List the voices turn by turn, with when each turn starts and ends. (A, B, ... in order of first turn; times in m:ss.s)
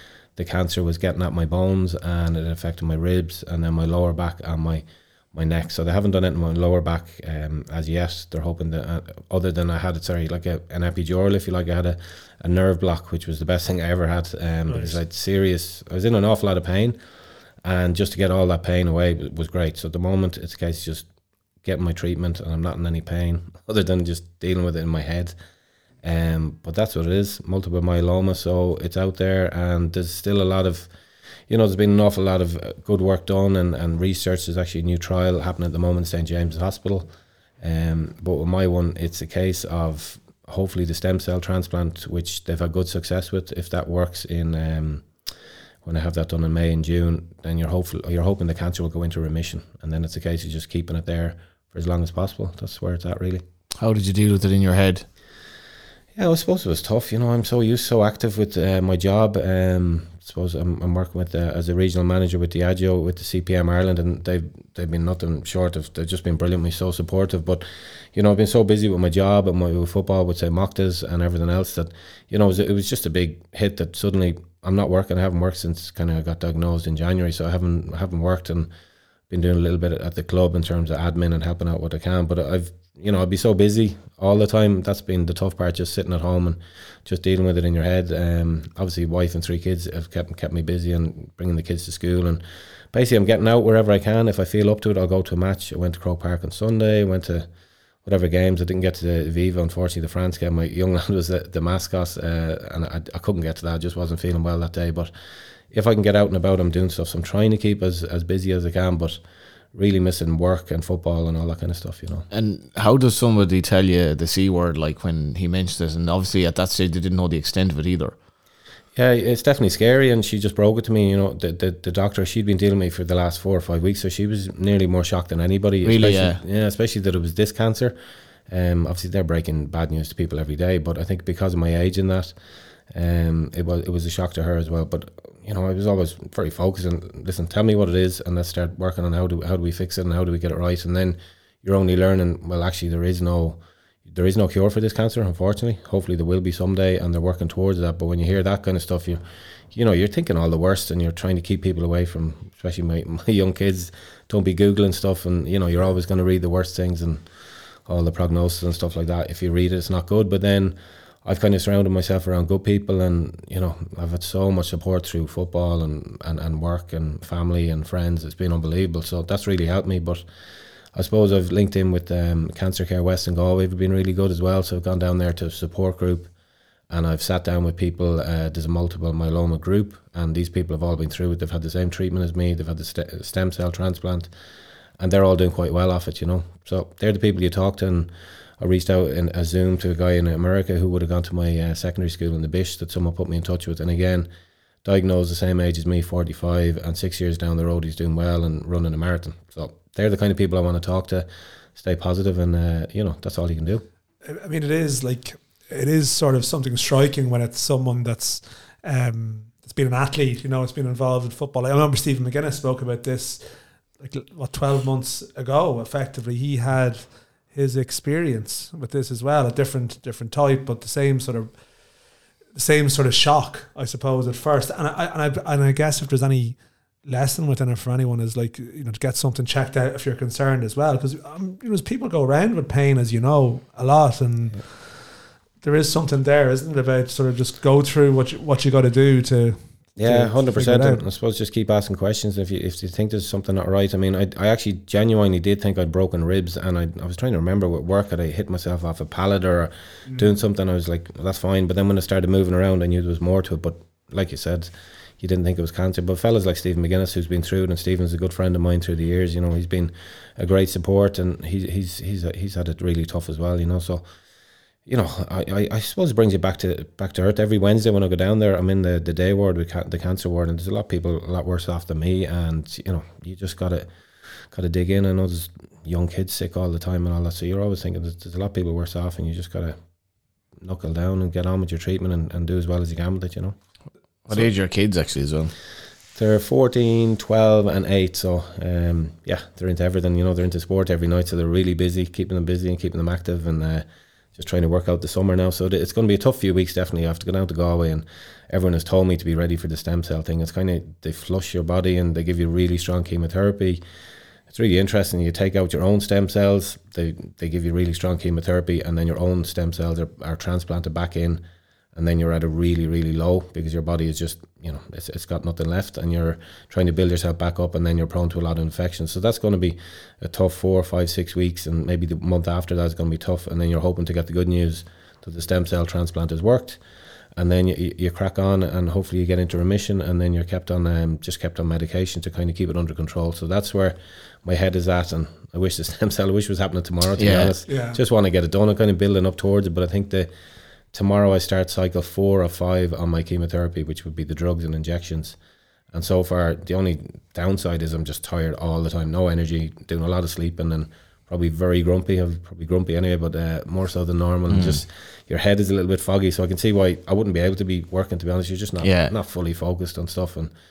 0:00.4-0:17.0 A
0:14.7-0:15.0 B
0:17.6-0:21.1 A
0:21.6-0:25.3 A
0:26.0-0:30.9 A
0:31.5-0:37.1 A
0:37.6-0:45.1 A
0:45.8-0:53.4 A
0:53.8-0:55.1 C
0:56.2-1:18.7 A
1:19.3-1:32.4 A
1:32.9-1:37.5 A
1:38.0-1:45.1 A
1:45.7-1:49.2 A
1:49.7-1:52.3 A
1:52.3-1:58.2 C
1:59.0-2:08.0 A
2:05.8-2:06.4 C
2:08.5-2:12.4 A
2:12.9-2:29.2 A
2:29.7-2:37.2 A
2:37.9-2:50.2 A
2:51.0-2:56.3 A
2:56.9-3:04.3 A
3:05.0-3:14.3 A
3:14.8-3:21.3 A
3:21.8-3:23.8 A
3:24.2-3:33.4 B
3:34.0-3:41.5 B
3:42.6-3:54.9 B
3:55.6-4:01.0 B
4:00.0-4:24.0 A
4:24.9-4:33.9 A
4:34.5-4:39.8 A
4:40.6-4:43.6 A
4:44.3-4:45.5 C
4:46.2-5:03.8 A
5:04.5-5:11.4 A
5:12.0-5:26.8 A
5:27.4-5:40.3 A
5:37.2-5:37.5 C
5:37.7-5:38.0 B
5:40.9-5:45.4 A
5:45.9-6:00.5 A
5:54.5-5:54.8 C
5:58.8-5:59.1 C